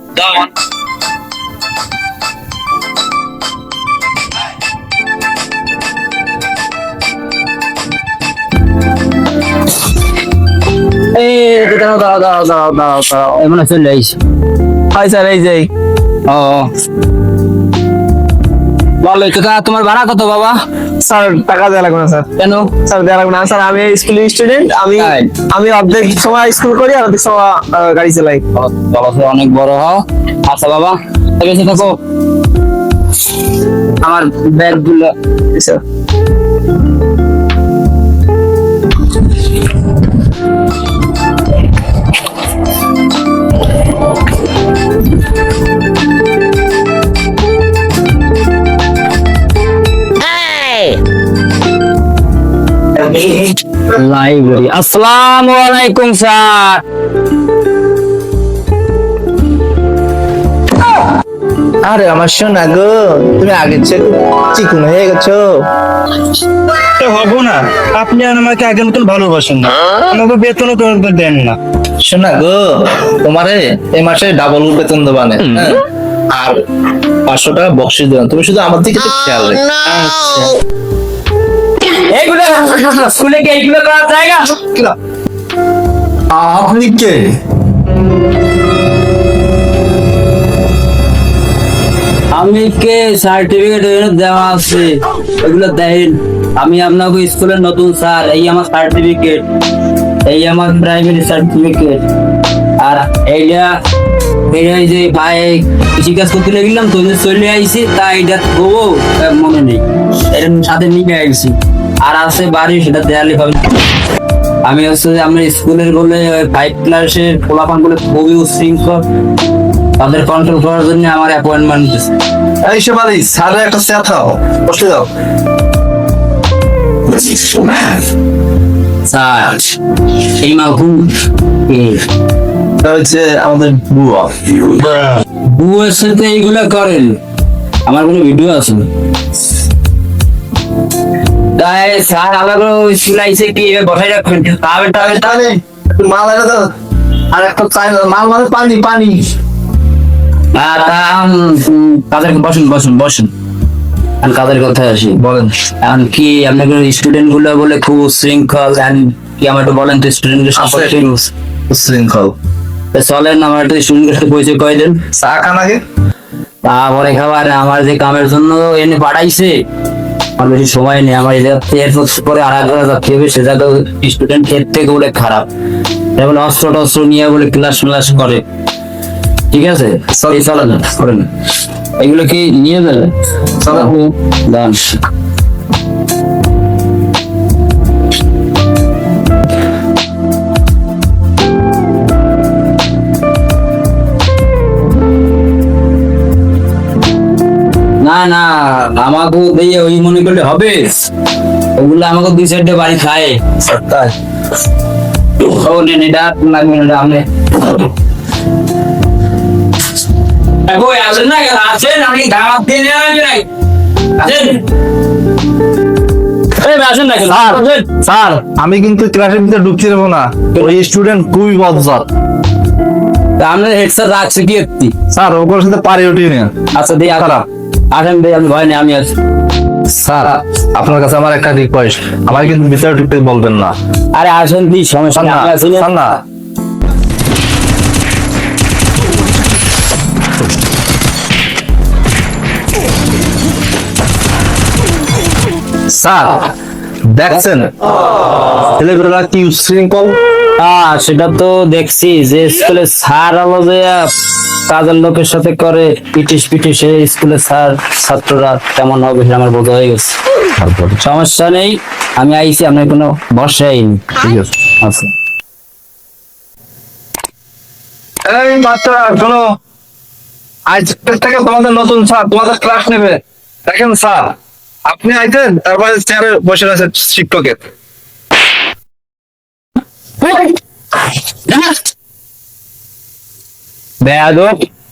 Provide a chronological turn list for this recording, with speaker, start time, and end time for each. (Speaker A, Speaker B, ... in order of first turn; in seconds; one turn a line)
Speaker A: 0.2-0.5
Speaker A: 11.1-14.2
Speaker B: 14.9-15.7
Speaker A: 16.3-16.7
Speaker A: 19.0-20.6
Speaker B: 21.0-28.4
Speaker A: 22.4-22.7
Speaker A: 25.0-25.2
Speaker A: 28.5-31.9
Speaker A: 34.0-35.1
Speaker B: 35.5-35.8
Speaker A: 53.0-56.8
Speaker C: 61.8-65.6
Speaker D: 67.0-71.2
Speaker A: 67.9-69.5
Speaker A: 70.3-71.5
Speaker C: 72.0-76.6
Speaker C: 77.2-79.7
Speaker A: 79.9-80.3
Speaker A: 81.8-84.6
Speaker C: 86.3-87.3
Speaker A: 92.3-99.4
Speaker A: 100.2-102.0
Speaker A: 102.8-103.7
Speaker A: 104.5-113.7
Speaker A: 114.6-119.0
Speaker A: 120.0-122.1
Speaker C: 122.6-125.1
Speaker A: 129.0-131.1
Speaker A: 131.6-132.0
Speaker C: 132.8-134.7
Speaker A: 135.0-137.2
Speaker A: 137.8-138.9
Speaker A: 141.6-145.5
Speaker B: 145.1-145.4
Speaker B: 146.0-146.7
Speaker B: 147.3-149.2
Speaker C: 147.3-148.4
Speaker A: 150.5-153.3
Speaker A: 154.2-155.2
Speaker C: 155.2-155.5
Speaker A: 155.8-161.3
Speaker C: 160.5-160.9
Speaker C: 161.7-162.3
Speaker A: 162.9-165.0
Speaker C: 165.1-165.8
Speaker A: 166.6-169.5
Speaker A: 170.4-175.5
Speaker A: 176.2-178.4
Speaker A: 179.5-181.3
Speaker C: 180.1-180.4
Speaker A: 182.0-184.9
Speaker C: 183.6-183.9
Speaker A: 198.0-201.1
Speaker A: 201.7-203.6
Speaker C: 203.7-204.1
Speaker A: 205.4-207.8
Speaker A: 210.6-213.5
Speaker A: 214.2-214.6
Speaker A: 216.5-218.2
Speaker C: 217.3-222.1
Speaker A: 223.4-224.9
Speaker C: 225.1-226.5
Speaker A: 226.7-229.1
Speaker C: 227.1-227.4
Speaker C: 229.8-233.8
Speaker A: 234.1-236.1
Speaker C: 235.1-236.2
Speaker C: 245.9-246.5
Speaker C: 247.1-247.8
Speaker C: 248.6-250.2
Speaker A: 250.6-254.1
Speaker A: 254.7-265.1
Speaker C: 264.2-264.5
Speaker C: 268.2-269.4
Speaker C: 270.7-274.3
Speaker C: 274.9-277.6
Speaker A: 280.2-280.5
Speaker A: 281.5-281.8
Speaker A: 284.0-284.6